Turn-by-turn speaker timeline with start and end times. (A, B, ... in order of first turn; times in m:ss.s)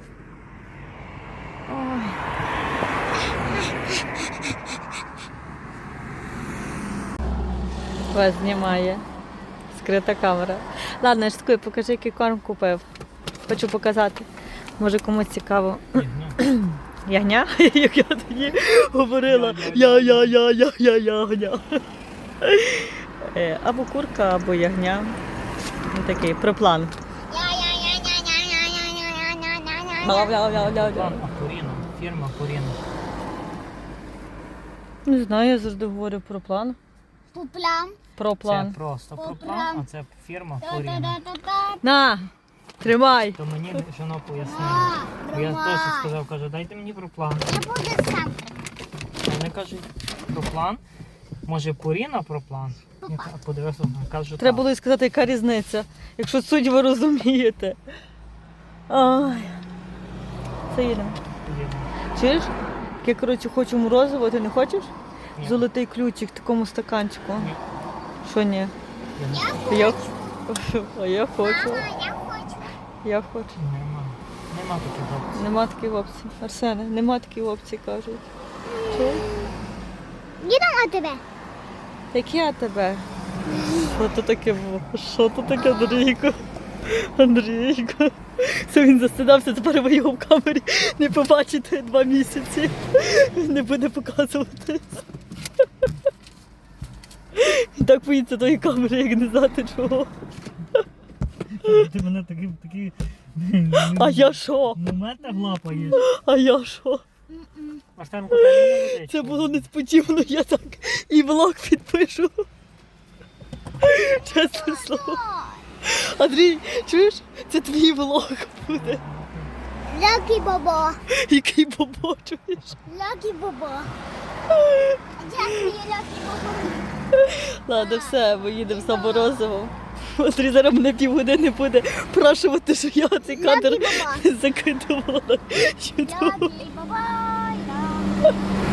0:01.7-0:02.2 A
0:08.1-0:09.0 A
0:09.7-0:12.9 A
0:13.5-0:14.3 A
0:14.8-0:21.8 A
0:15.9-0:16.4 B
0:19.2-0:20.4 B
0:22.4-0:25.2 A
0:25.9-0:26.9 A
0:27.3-0:30.3 C
0:30.0-0:31.2 A
0:30.5-0:32.8 B
0:35.0-0:36.8 A
0:37.3-0:38.0 C
0:38.2-0:38.8 A
0:38.4-0:41.2 B
0:39.1-0:39.8 C
0:40.6-0:41.8 C
0:41.8-0:42.3 A
0:42.8-0:43.8 A
0:43.4-0:47.6 B
0:44.4-0:46.2 C
0:47.5-0:48.5 C
0:49.2-0:50.8 B
0:51.4-0:54.6 B
0:54.4-0:57.8 A
0:58.9-0:59.6 A
1:00.7-1:01.2 A
1:01.3-1:01.9 B
1:02.1-1:07.5 A
1:05.4-1:05.6 B
1:07.4-1:07.6 B
1:08.2-1:08.7 A
1:09.2-1:09.8 B
1:09.3-1:10.1 C
1:09.6-1:11.9 A
1:11.4-1:12.7 C
1:13.0-1:13.6 A
1:13.6-1:15.4 B
1:15.3-1:18.3 A
1:18.6-1:19.5 C
1:18.9-1:19.2 A
1:20.4-1:21.2 C
1:22.1-1:23.0 A
1:23.7-1:35.0 A
1:37.3-1:40.1 A
1:41.5-1:46.0 B
1:43.7-1:44.8 A
1:45.3-1:46.0 C
1:45.7-1:47.0 A
1:47.4-1:47.8 C
1:48.0-1:49.7 B
1:48.3-1:52.4 A
1:53.8-1:55.2 A
1:54.0-1:55.6 C
1:55.8-1:59.0 A
1:58.7-1:59.5 B
1:59.9-2:01.0 C
2:01.1-2:02.8 A
2:02.8-2:03.9 C
2:04.5-2:05.7 A
2:05.2-2:06.9 C
2:07.2-2:16.6 A
2:07.7-2:09.7 C
2:13.2-2:14.3 C
2:16.0-2:18.4 C